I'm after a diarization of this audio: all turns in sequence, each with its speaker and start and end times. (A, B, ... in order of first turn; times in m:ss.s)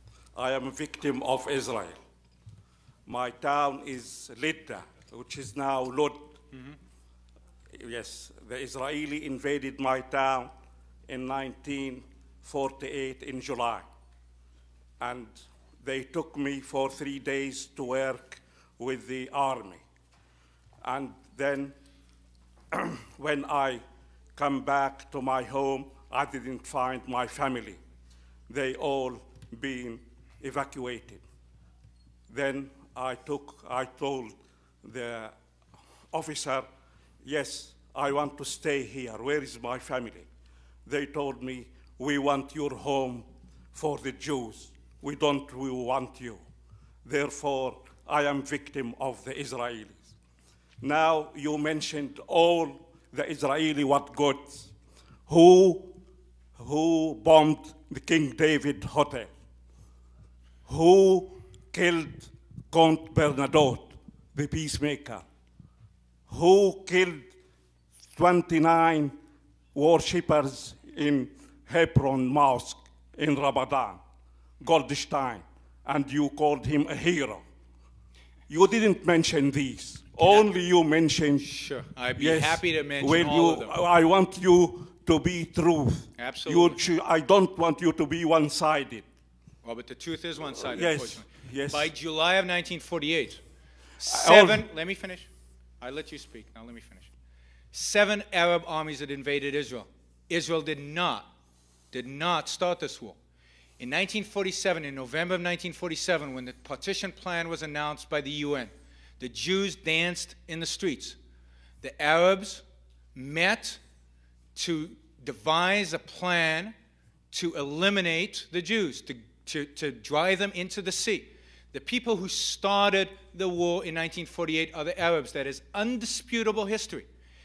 0:00.3-0:02.0 A
0:03.0-0:06.3 A
0:07.7-0:10.5 A
0:11.1-0:13.8 A
0:15.0-0:19.8 A
0:20.8-0:21.7 A
0:22.7-0:23.8 A
0:24.4-0:27.8 A
0:28.5-0:31.2 A
0:32.3-0:35.3 A
0:36.1-0:36.6 A
0:37.2-0:40.3 A
0:40.8-0:46.4 A
0:47.0-0:50.2 A
0:50.8-0:54.7 A
0:55.3-0:55.9 A
0:56.6-0:59.3 A
1:00.7-1:05.2 A
1:06.3-1:07.3 A
1:08.1-1:09.1 A
1:09.7-1:14.0 A
1:14.6-1:17.4 A
1:18.5-1:21.5 A
1:21.4-1:23.7 B
1:22.2-1:29.0 A
1:26.2-1:26.8 B
1:29.6-1:33.4 B
1:30.7-1:31.9 A
1:34.0-1:35.3 B
1:34.1-1:34.6 A
1:35.8-1:37.1 B
1:37.7-1:41.3 B
1:41.9-1:43.2 B
1:43.8-1:51.2 B
1:51.8-1:52.6 B
1:53.1-1:53.8 B
1:54.5-1:56.7 B
1:57.3-2:07.1 B